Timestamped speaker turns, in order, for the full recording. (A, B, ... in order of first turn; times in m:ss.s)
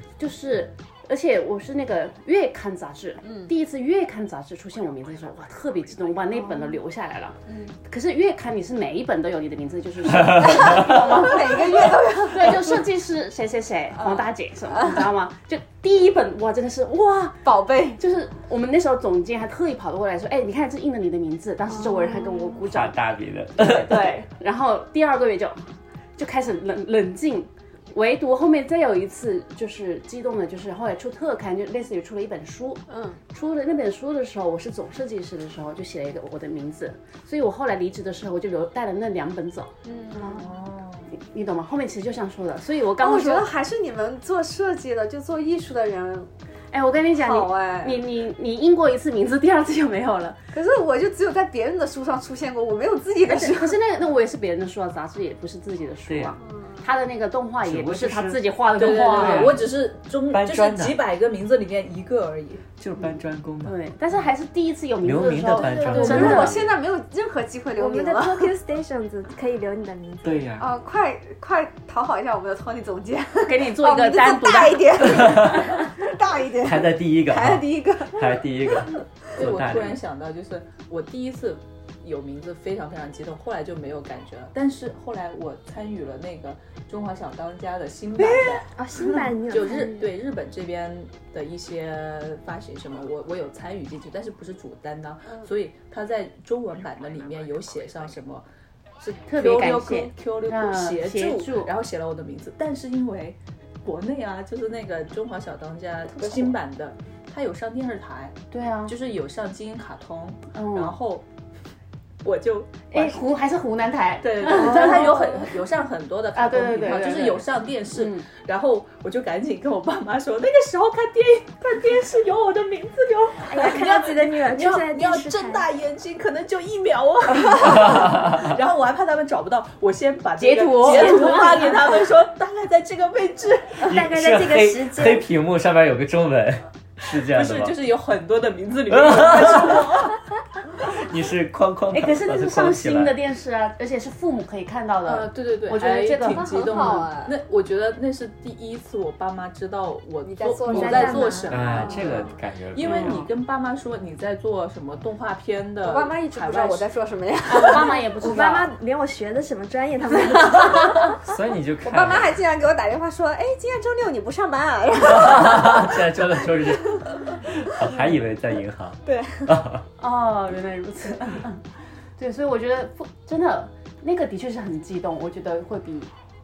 0:00.2-0:23.0 A
0:03.2-0:03.5 B
0:06.4-0:06.8 C
0:07.5-0:07.7 B
0:10.2-0:12.8 B
0:14.0-0:15.0 B
0:17.4-0:18.0 B
0:21.8-0:22.4 C
0:22.6-0:24.2 D
0:23.5-0:40.5 A
0:32.9-0:33.2 B
0:39.8-0:40.5 B
0:40.2-0:41.1 E
0:41.1-0:43.5 A
0:43.0-0:46.3 B
0:46.7-0:50.4 A
0:47.1-0:48.0 B
0:50.5-0:53.8 B
0:53.3-0:59.5 A
0:56.1-0:56.4 D
0:56.4-0:56.9 B
0:57.6-0:59.6 D
0:58.8-1:02.6 E
1:00.3-1:01.0 D
1:02.8-1:03.8 D
1:03.6-1:06.6 A
1:05.0-1:06.8 D
1:05.7-1:08.5 B
1:07.8-1:10.5 C
1:10.2-1:10.7 D
1:10.6-1:18.9 B
1:13.4-1:15.6 A
1:15.0-1:15.6 D
1:16.6-1:20.0 D
1:19.3-1:38.4 E
1:28.2-1:28.6 B
1:28.7-1:30.1 C
1:39.0-1:51.2 E
1:39.3-1:41.7 A
1:46.1-1:46.6 B
1:48.5-1:48.9 A
1:50.5-1:50.9 A
1:52.2-1:53.2 E
1:52.9-1:55.5 A
1:54.2-2:13.9 E
1:54.8-1:55.0 C
1:56.3-1:58.3 A
2:03.4-2:05.7 C
2:07.8-2:08.4 D
2:10.4-2:12.0 A
2:13.8-2:15.3 C
2:13.9-2:17.7 D
2:17.1-2:20.2 E
2:18.9-2:20.0 D
2:20.8-2:23.2 D
2:21.9-2:27.1 A
2:25.0-2:36.9 E
2:26.3-2:27.3 B
2:30.2-2:32.3 B
2:30.7-2:32.0 C
2:31.5-2:33.2 D
2:32.8-2:33.3 A
2:35.8-2:38.4 B
2:37.5-2:38.7 A
2:38.2-2:41.1 C
2:41.2-2:42.4 D
2:41.8-2:47.4 B
2:45.0-2:49.8 D
2:49.0-2:49.6 B
2:50.0-2:51.6 A
2:52.2-2:56.1 A